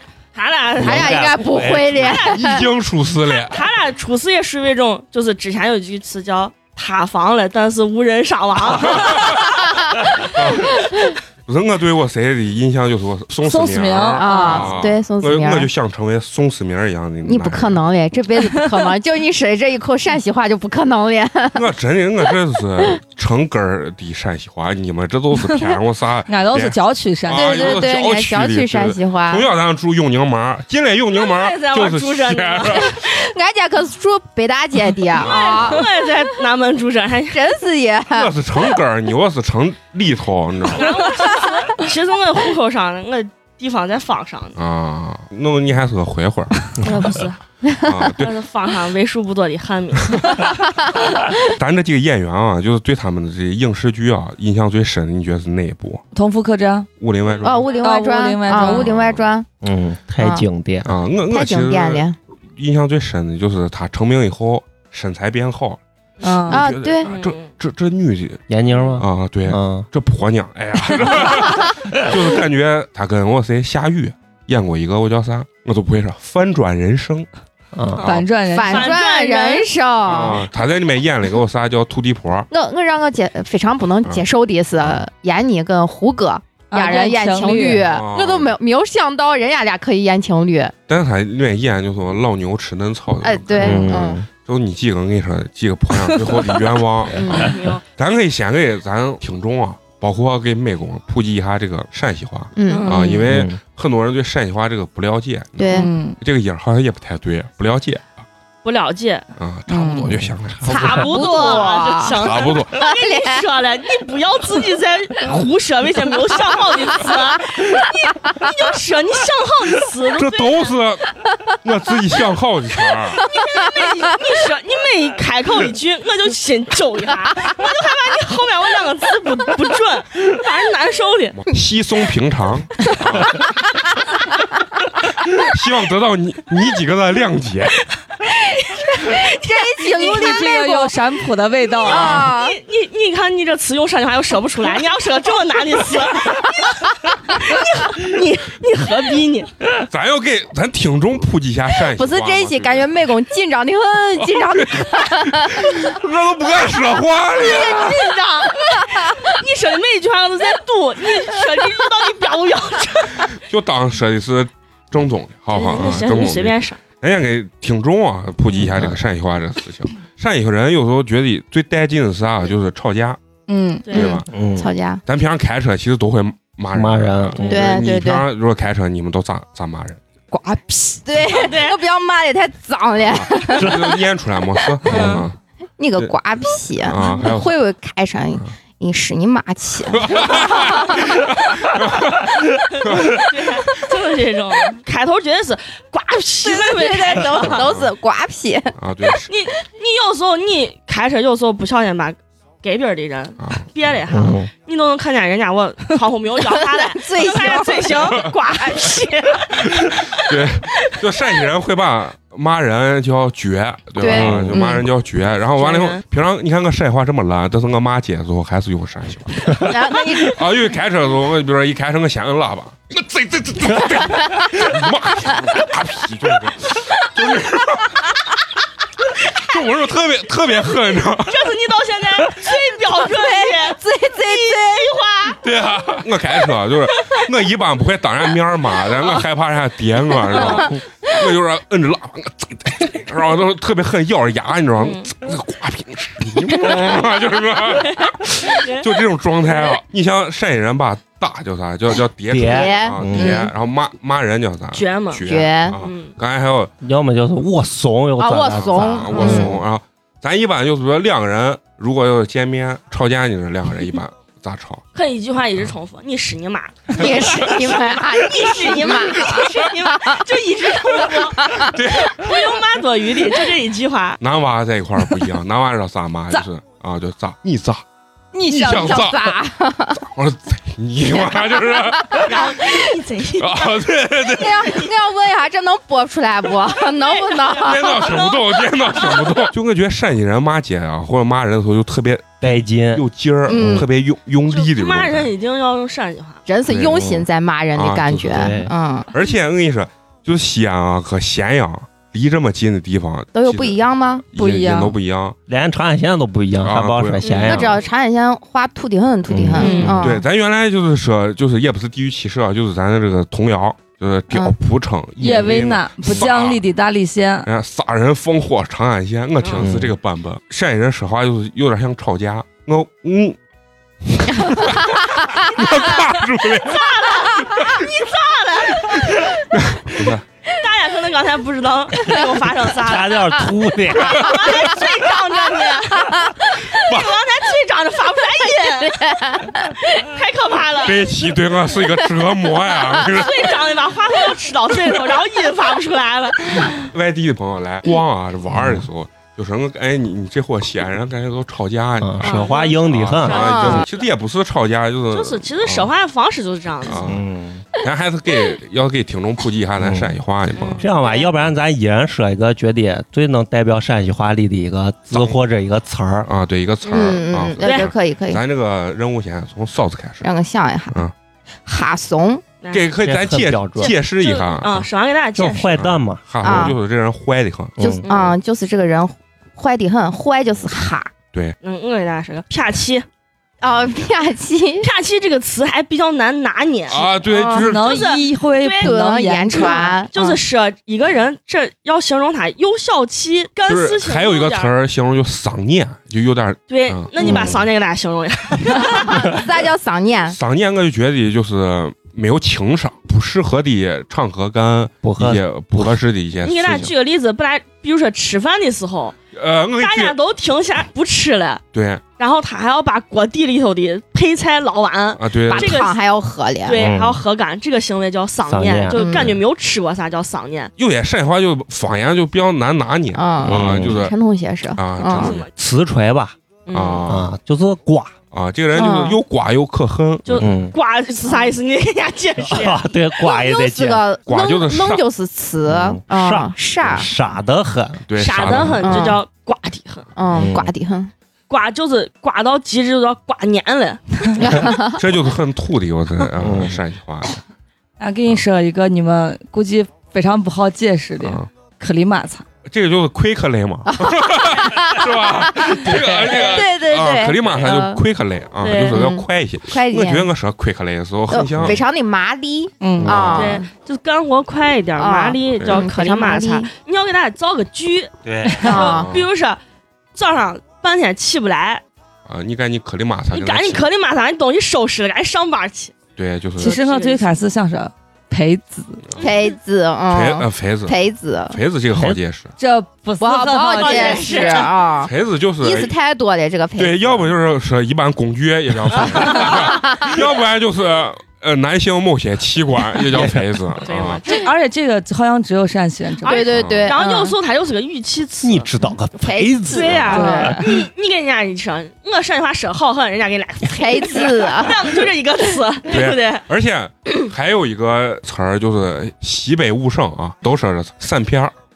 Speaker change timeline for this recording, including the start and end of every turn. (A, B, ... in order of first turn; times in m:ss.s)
0:00.3-0:02.5 A
0:00.8-0:02.1 B
0:00.8-0:02.7 C
0:02.3-0:03.6 D
0:03.3-0:09.4 A
0:08.8-0:09.4 D
0:10.3-0:10.8 D
0:11.4-0:17.8 D
0:13.4-0:14.7 E
0:14.2-0:15.7 C
0:17.2-0:21.6 C
0:21.5-0:33.0 D
0:26.3-0:27.8 E
0:27.3-0:29.5 C
0:31.1-0:33.0 A
0:32.9-0:35.9 C
0:35.2-0:37.4 A
0:35.2-0:35.8 D
0:37.3-0:38.3 C
0:38.1-0:40.9 D
0:40.7-0:44.6 A
0:44.6-0:46.8 D
0:46.8-0:47.4 A
0:47.6-0:48.0 C
0:47.8-0:48.4 D
0:48.2-0:50.6 A
0:51.5-0:56.0 D
0:56.1-0:56.9 E
0:57.0-0:57.7 D
0:57.4-0:59.5 C
0:57.7-0:58.9 E
0:58.6-0:59.2 D
0:59.6-1:00.9 B
1:00.2-1:00.4 C
1:00.8-1:17.3 D
1:01.3-1:02.2 C
1:06.2-1:06.6 E
1:06.5-1:07.1 C
1:07.0-1:07.5 A
1:08.5-1:09.9 B
1:17.7-1:18.0 B
1:18.0-1:18.3 D
1:18.0-1:19.0 E
1:18.4-1:20.4 C
1:18.7-1:19.7 A
1:20.0-1:22.5 D
1:22.5-1:30.7 C
1:26.7-1:27.8 E
1:27.8-1:28.5 D
1:30.9-1:48.2 D
1:33.2-1:34.2 C
1:33.6-1:34.2 B
1:37.1-1:37.5 C
1:37.2-1:37.8 A
1:42.6-1:43.3 C
1:42.7-1:43.2 A
1:43.3-1:43.6 B
1:45.6-1:45.9 C
1:45.7-1:46.2 E
1:48.6-1:49.3 A
1:49.4-1:50.7 D
1:49.7-1:50.2 E
1:50.5-1:51.1 B
1:50.6-2:00.8 A
1:50.7-1:53.4 C
1:52.1-1:52.8 D
2:00.2-2:01.0 D
2:01.6-2:03.2 D
2:03.2-2:11.4 A
2:11.3-2:13.4 D
2:15.2-2:17.8 D
2:18.2-2:20.5 A
2:19.1-2:20.9 C
2:19.9-2:22.3 E
2:21.8-2:22.6 C
2:21.8-2:29.5 A
2:29.8-2:32.9 D
2:31.9-2:35.8 C
2:34.2-2:38.1 D
2:37.4-2:39.4 C
2:37.4-2:43.3 A
2:43.3-2:53.2 D
2:45.5-2:46.8 A
2:48.6-2:49.0 B
2:53.5-2:53.9 E
2:53.8-2:54.2 A
2:53.9-2:54.3 D
2:53.9-2:55.0 C
2:54.3-2:54.7 B
2:55.0-3:00.0 D
2:56.7-2:57.8 B
2:57.4-2:58.2 C
3:00.3-3:00.6 E
3:00.4-3:04.0 C
3:01.3-3:01.8 A
3:03.0-3:05.4 D
3:04.6-3:05.2 C
3:04.9-3:05.2 A
3:05.8-3:11.2 C
3:06.8-3:07.6 D
3:09.9-3:13.7 D
3:12.8-3:17.6 A
3:16.4-3:18.8 C
3:17.3-3:17.9 D
3:18.8-3:19.3 D
3:19.3-3:31.4 A
3:23.4-3:23.6 D
3:24.1-3:24.5 B
3:26.4-3:28.1 C
3:29.6-3:48.0 D
3:34.0-3:34.8 C
3:34.1-3:34.6 B
3:35.6-3:36.0 A
3:39.6-3:40.4 C
3:49.3-3:51.5 D
3:51.2-3:55.4 A
3:53.0-3:55.4 C
3:55.4-4:16.7 D
3:56.9-3:57.3 A
3:58.9-3:59.2 A
4:00.3-4:00.7 A
4:04.8-4:05.1 A
4:07.7-4:09.0 A
4:12.3-4:13.4 B
4:12.4-4:13.5 C
4:14.7-4:15.2 A
4:15.2-4:15.8 C
4:15.8-4:16.1 A
4:16.8-4:19.6 B
4:18.2-4:19.6 C
4:18.5-4:24.8 D
4:24.9-4:34.2 A
4:26.9-4:30.2 C
4:31.0-4:31.7 C
4:31.5-4:32.3 D
4:34.2-4:37.8 D
4:38.3-4:40.0 C
4:38.5-4:39.4 D
4:40.0-4:42.6 D
4:41.5-4:42.8 C
4:42.2-4:43.8 A
4:43.4-4:44.8 D
4:44.3-4:48.1 C
4:46.8-4:49.4 A
4:47.6-4:55.3 D
4:52.4-4:53.9 B
4:53.5-4:53.9 C
4:54.5-4:56.4 A
4:56.5-4:59.1 C
4:56.7-4:57.2 B
4:57.7-4:58.6 D
4:58.3-4:58.7 B
4:59.1-5:03.8 D
5:03.3-5:04.2 C
5:04.3-5:05.4 D
5:04.3-5:05.0 E
5:05.5-5:07.8 B
5:06.6-5:07.6 D
5:07.2-5:07.8 A
5:07.4-5:10.2 C
5:09.3-5:10.1 B
5:09.6-5:09.9 A
5:09.6-5:10.0 E
5:09.8-5:16.6 D
5:15.2-5:17.5 E
5:17.4-5:23.4 D
5:19.4-5:19.6 A
5:19.6-5:19.9 B
5:24.0-5:27.8 D
5:25.6-5:29.4 A
5:29.1-5:30.2 D
5:30.5-5:33.5 A
5:32.8-5:34.4 B
5:34.0-5:39.2 A
5:36.0-5:36.4 C
5:36.9-5:37.2 D
5:38.8-5:39.8 C
5:39.9-5:41.0 A
5:40.8-5:43.6 D
5:43.1-5:46.8 A
5:46.6-5:55.9 D
5:48.5-5:48.8 B
5:52.0-5:53.8 B
5:52.2-5:54.0 A
5:53.3-5:53.8 C
5:55.1-5:57.1 A
5:56.8-5:57.2 D
5:57.0-5:57.6 B
5:57.8-6:00.8 D
5:59.8-6:00.1 B
6:00.5-6:01.3 A
6:00.8-6:06.3 B
6:05.1-6:05.4 D
6:06.2-6:10.3 D
6:06.8-6:07.9 A
6:06.9-6:08.4 C
6:10.2-6:11.0 C
6:11.6-6:12.4 C
6:12.6-6:12.9 A
6:12.7-6:14.9 D
6:13.0-6:13.9 B
6:13.8-6:15.7 A
6:15.3-6:16.7 B
6:15.7-6:17.8 D
6:16.4-6:16.8 C
6:17.8-6:18.0 B
6:17.8-6:21.1 C
6:18.0-6:18.4 A
6:21.6-6:23.0 A
6:23.6-6:24.9 C
6:24.8-6:27.1 A
6:26.9-6:28.0 D
6:27.2-6:27.7 C
6:27.6-6:30.0 E
6:27.7-6:29.0 A
6:28.8-6:30.4 C
6:29.5-6:34.7 A
6:33.6-6:37.5 D
6:36.7-6:39.4 A
6:37.2-6:37.6 B
6:37.2-6:37.5 C
6:38.7-6:40.4 C
6:40.3-6:46.9 D
6:45.0-6:46.0 B
6:46.4-6:49.2 A
6:49.3-6:50.2 D
6:49.8-6:51.6 A
6:51.7-6:52.0 D
6:52.2-6:56.0 A
6:55.2-6:55.8 D
6:55.5-6:56.8 C
6:56.6-7:00.7 A
6:56.8-6:57.2 B
6:58.4-6:59.0 B
6:58.9-6:59.4 C
7:00.8-7:04.1 D
7:03.1-7:05.3 C
7:03.4-7:04.0 B
7:04.8-7:05.5 D
7:05.1-7:05.5 A
7:05.5-7:06.4 B
7:06.6-7:07.1 A
7:06.7-7:07.3 D
7:07.0-7:08.1 B
7:08.3-7:10.5 D
7:08.7-7:09.2 C
7:10.2-7:12.8 A
7:10.4-7:10.7 B
7:12.4-7:14.0 B
7:13.1-7:17.1 C
7:14.2-7:15.0 D
7:15.6-7:18.8 B
7:18.1-7:19.1 D
7:18.2-7:20.1 A
7:18.8-7:19.2 C
7:20.2-7:21.1 C
7:20.3-7:20.7 B
7:21.5-7:24.5 A
7:24.4-7:25.0 C
7:25.0-7:27.3 D
7:26.4-7:26.8 B
7:28.0-7:32.4 E
7:31.2-7:31.5 D
7:32.6-7:41.8 D
7:33.9-7:38.0 C
7:38.6-7:39.0 A
7:38.9-7:40.3 C
7:41.3-7:43.7 C
7:42.8-7:43.1 E
7:43.0-7:43.5 B
7:43.1-7:43.5 D
7:43.3-7:49.6 A
7:45.0-7:46.7 C
7:45.6-7:45.9 D
7:48.2-7:48.7 B
7:48.6-7:49.1 C
7:48.8-7:49.2 D
7:50.1-7:51.8 A
7:52.2-7:53.8 D
7:53.3-7:56.0 A
7:56.2-7:56.8 D
7:56.6-7:59.0 E
7:56.6-7:57.3 A
7:59.2-7:59.5 A
7:59.2-8:01.6 C
8:00.1-8:01.0 D
8:01.5-8:02.5 D
8:01.9-8:02.2 B
8:02.6-8:04.7 E
8:03.2-8:07.3 C
8:03.7-8:04.8 A
8:05.0-8:05.9 D
8:06.8-8:14.2 D
8:09.1-8:09.7 A
8:09.1-8:10.2 C
8:13.1-8:13.5 B
8:13.8-8:14.4 A
8:14.3-8:16.5 E
8:16.2-8:18.7 A
8:16.2-8:17.3 C
8:16.5-8:16.9 D
8:18.4-8:20.6 B
8:19.2-8:20.6 C
8:19.6-8:26.4 A
8:20.1-8:20.6 E
8:23.6-8:25.0 C
8:25.9-8:31.5 D